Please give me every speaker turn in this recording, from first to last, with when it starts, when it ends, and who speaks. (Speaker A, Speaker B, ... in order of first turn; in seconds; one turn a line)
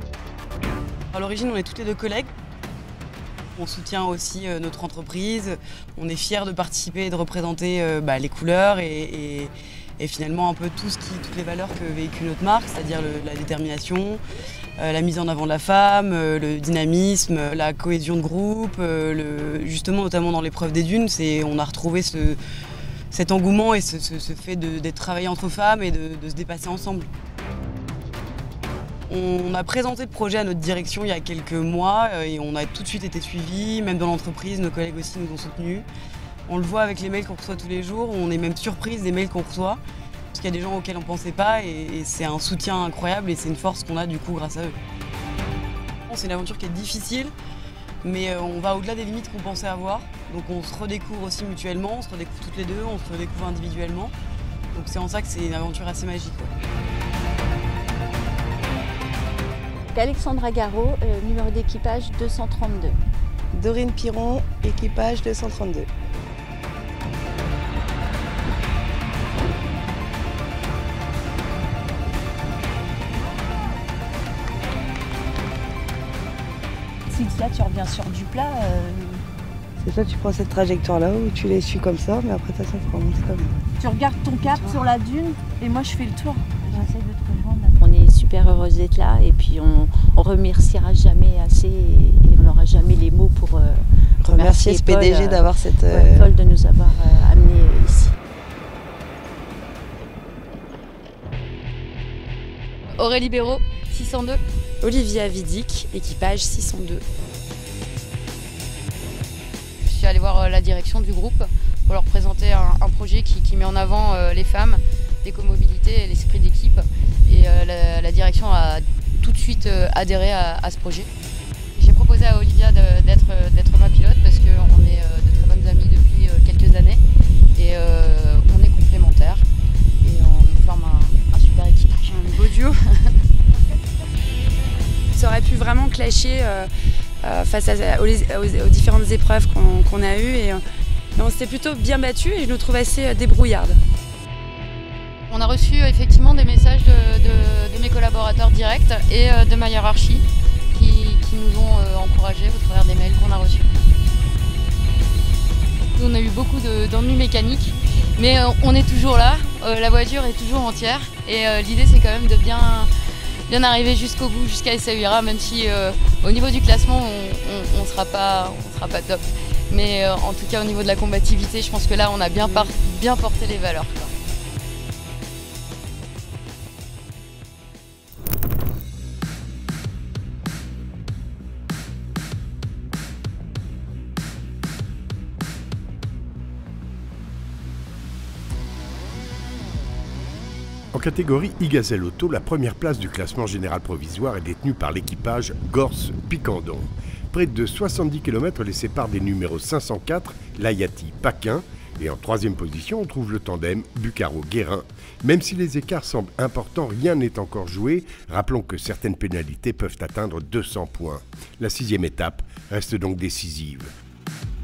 Speaker A: 1.1-2.3
Speaker A: 3.5-14.2
Speaker A: 14.8-22.4
Speaker A: 23.1-27.1
Speaker A: 29.1-35.9
Speaker A: 36.5-39.8
Speaker A: 40.3-44.8
Speaker A: 46.1-47.3
Speaker A: 48.0-54.1
Speaker A: 54.7-56.5
Speaker B: 59.9-63.0
Speaker C: 63.5-65.9
Speaker B: 77.2-78.9
Speaker D: 77.6-78.9
Speaker C: 79.8-83.5
Speaker D: 83.8-87.7
Speaker B: 84.4-84.9
Speaker C: 84.4-84.9
Speaker B: 85.5-86.7
Speaker B: 87.3-98.1
Speaker C: 94.2-96.3
Speaker E: 102.9-104.4
Speaker D: 104.8-107.0
Speaker E: 109.8-121.1
Speaker E: 121.8-127.0
Speaker E: 127.5-129.4
Speaker E: 130.0-133.2
Speaker D: 135.1-136.7
Speaker D: 137.2-140.6
Speaker D: 141.2-143.8
Speaker E: 145.3-153.7
Speaker E: 155.9-162.9
Speaker E: 163.5-174.1
Speaker F: 190.9-213.9